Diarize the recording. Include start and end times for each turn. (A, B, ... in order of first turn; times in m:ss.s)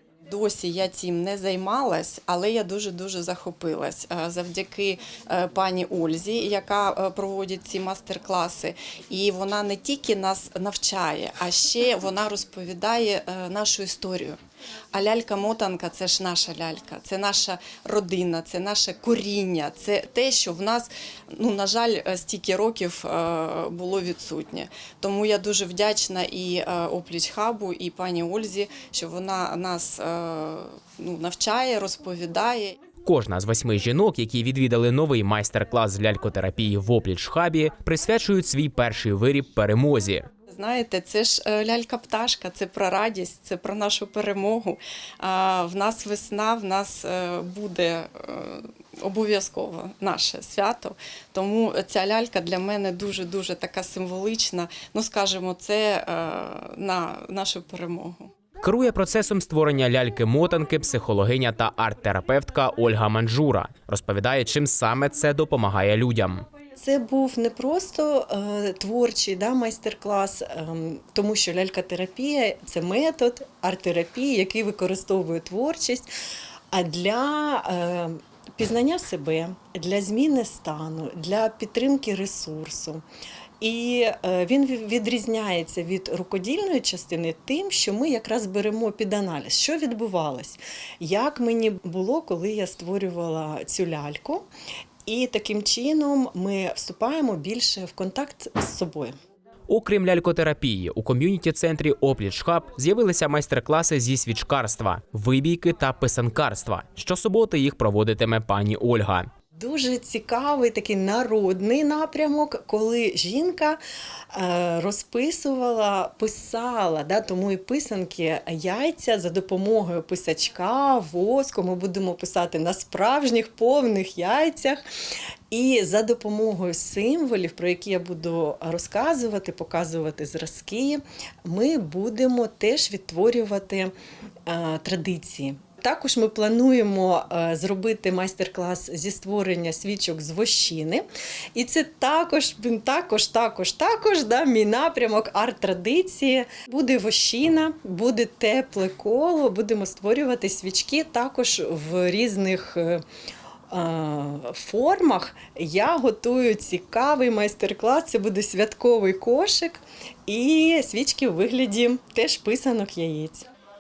0:00.3-0:14.4 A
0:14.9-0:32.8 A
0:33.0-0:40.3 B
0:40.5-0:58.3 A
0:58.6-1:06.4 B
1:06.8-1:16.1 C
1:16.7-1:23.0 C
1:23.6-1:34.4 C
1:35.1-1:39.1 C
1:39.7-1:49.3 B
1:49.6-1:53.8 C
1:54.3-2:04.8 C
2:05.5-2:13.9 C
2:14.5-2:33.0 C
2:33.7-2:43.5 C